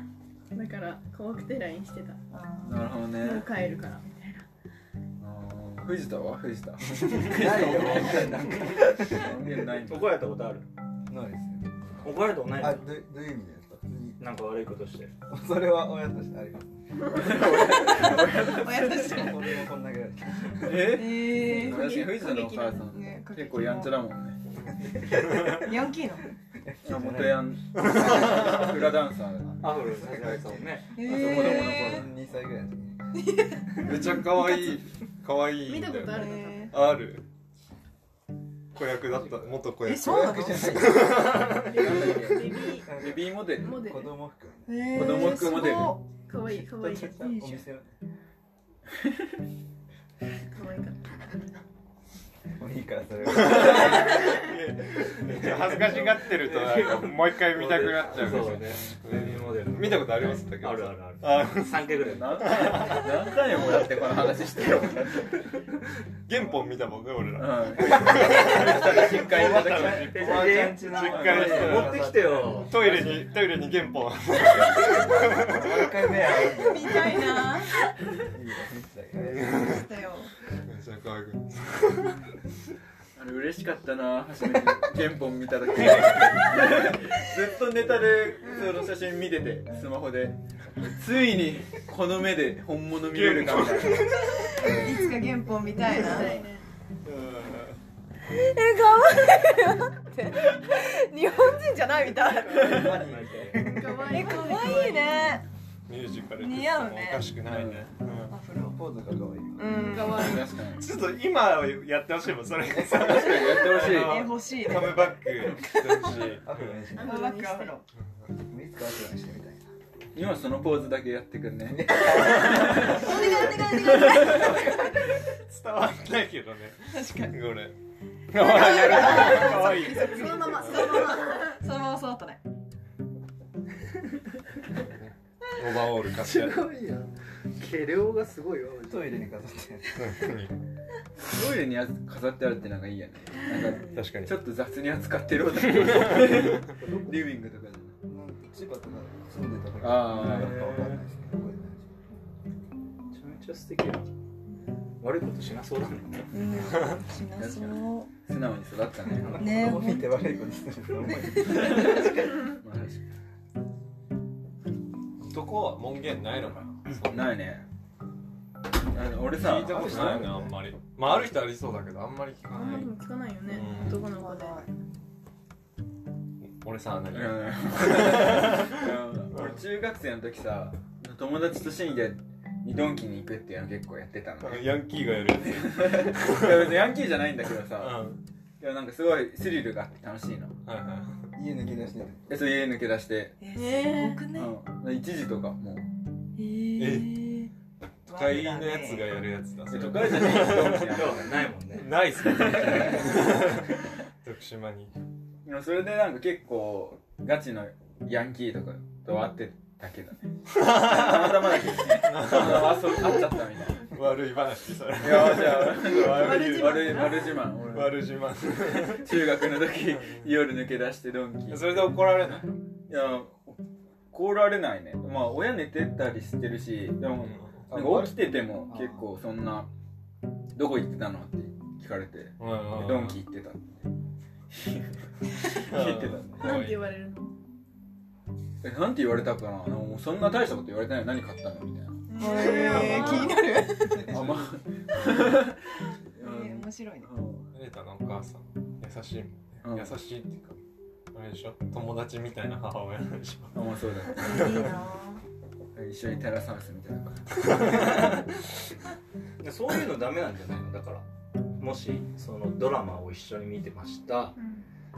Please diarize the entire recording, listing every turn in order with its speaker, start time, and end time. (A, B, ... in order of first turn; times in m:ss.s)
0:00.5-0:02.2 A
0:02.3-0:02.8 B
0:02.6-0:03.5 C
0:03.2-0:04.5 A
0:05.2-0:10.1 C
0:07.2-0:09.3 D
0:09.8-0:10.7 E
0:11.1-0:14.2 D
0:12.0-0:12.9 E
0:14.2-0:15.1 E
0:15.3-0:17.3 D
0:17.1-0:19.3 C
0:17.6-0:19.7 B
0:19.0-0:20.9 D
0:20.6-0:24.4 C
0:20.8-0:21.9 B
0:21.4-0:22.9 A
0:22.8-0:24.0 B
0:24.8-0:25.7 D
0:25.5-0:26.3 B
0:26.6-0:28.9 D
0:26.8-0:29.8 C
0:27.8-0:28.6 F
0:29.6-0:31.0 E
0:29.8-0:33.0 D
0:30.9-0:32.0 B
0:31.1-0:32.1 C
0:33.2-0:34.8 B
0:33.8-0:37.2 F
0:35.6-0:36.7 A
0:36.1-0:36.8 B
0:38.8-0:41.8 F
0:39.8-0:41.0 B
0:40.0-0:45.1 D
0:41.5-0:44.2 A
0:41.7-0:43.8 C
0:44.7-0:46.0 B
0:44.9-0:46.0 C
0:45.2-0:47.3 A
0:46.5-0:47.9 D
0:47.2-0:47.7 B
0:50.5-0:51.0 A
0:52.6-0:56.2 D
0:53.2-1:03.0 F
0:55.9-1:03.0 E
1:01.9-1:05.4 C
1:06.3-1:15.9 F
1:07.4-1:10.3 C
1:07.8-1:13.2 D
1:09.8-1:13.0 E
1:11.0-1:11.9 C
1:14.6-1:15.4 B
1:15.3-1:17.5 D
1:16.2-1:17.9 B
1:18.2-1:19.8 D
1:19.3-1:19.7 F
1:19.5-1:20.3 B
1:20.6-1:22.2 F
1:23.2-1:35.1 C
1:33.1-1:35.1 F
1:34.3-1:36.4 B
1:35.8-1:36.7 A
1:37.0-1:37.8 F
1:38.2-1:43.1 B
1:42.5-1:44.3 D
1:42.6-1:43.0 C
1:42.8-1:43.7 E
1:43.5-1:45.4 A
1:44.0-1:45.4 B
1:45.9-1:48.3 F
1:46.4-1:47.4 B
1:47.5-1:47.9 C
1:48.3-1:48.8 B
1:48.7-1:49.8 D
1:49.6-1:50.5 B
1:49.6-1:50.5 A
1:50.1-1:50.9 C
1:50.8-1:56.9 F
1:52.6-1:53.1 D
1:53.0-1:54.3 C
1:53.4-1:55.2 B
1:55.4-1:56.4 C
1:56.2-1:57.3 D
1:56.9-1:57.8 B
1:57.0-1:57.8 A
1:58.4-1:59.7 D
2:00.2-2:03.1 C
2:01.7-2:03.6 D
2:02.7-2:04.9 B
2:03.7-2:04.5 C
2:04.3-2:07.8 F
2:04.4-2:04.6 D
2:06.9-2:07.4 B
2:08.3-2:10.9 F
2:08.4-2:12.4 B
2:10.0-2:11.6 A
2:15.6-2:16.6 F
2:16.2-2:19.2 E
2:18.9-2:20.1 D
2:19.9-2:20.6 F
2:21.2-2:28.0 C
2:23.5-2:24.0 B
2:23.9-2:24.4 F
2:25.6-2:26.4 F
2:26.8-2:27.2 D
2:28.0-2:31.8 D
2:29.8-2:30.7 C
2:30.1-2:31.0 E
2:33.1-2:34.1 E
2:35.0-2:36.3 E
2:36.3-2:38.1 B
2:37.4-2:39.5 C
2:39.2-2:42.5 D
2:39.3-2:42.0 B
2:41.4-2:43.0 C
2:45.2-2:47.3 F
2:46.9-2:47.6 C
2:48.9-2:50.3 C
2:49.4-2:52.9 F
2:49.6-2:50.5 D
2:52.5-2:54.7 A
2:53.5-2:54.1 F
2:53.6-2:54.7 B
2:56.6-2:59.6 F
2:57.1-3:04.7 C
3:04.4-3:06.7 F
3:05.3-3:08.0 C
3:07.8-3:08.2 F
3:08.6-3:10.6 C
3:10.6-3:11.3 F
3:11.4-3:12.4 D
3:12.3-3:13.4 C
3:13.4-3:14.5 B
3:13.5-3:14.2 A
3:14.3-3:15.9 C
3:16.4-3:17.5 B
3:16.8-3:17.3 F
3:18.1-3:19.1 B
3:18.1-3:21.2 F
3:19.7-3:21.5 C
3:20.5-3:22.2 E
3:21.7-3:25.0 F
3:22.2-3:23.5 C
3:25.4-3:33.9 C
3:30.5-3:39.2 F
3:35.0-3:38.1 C
3:35.8-3:37.4 A
3:38.9-3:42.1 C
3:39.8-3:40.3 F
3:41.5-3:42.9 F
3:42.9-3:49.7 C
3:47.2-3:47.7 F
3:47.7-3:49.0 D
3:50.6-3:53.9 C
3:52.4-3:53.2 F
3:54.5-3:55.0 C
3:55.5-3:56.9 F
3:55.5-3:56.5 C
3:56.4-3:57.4 A
3:58.6-4:03.2 C
4:02.1-4:03.4 A
4:02.2-4:04.2 B
4:02.5-4:03.3 F
4:04.0-4:07.5 C
4:06.2-4:07.1 B
4:07.5-4:10.6 F
4:09.6-4:10.0 C
4:11.1-4:13.6 F
4:13.5-4:14.8 C
4:14.1-4:15.2 B
4:14.3-4:14.7 F
4:15.8-4:17.7 C
4:19.4-4:21.0 E
4:21.6-4:24.4 E
4:24.4-4:24.6 A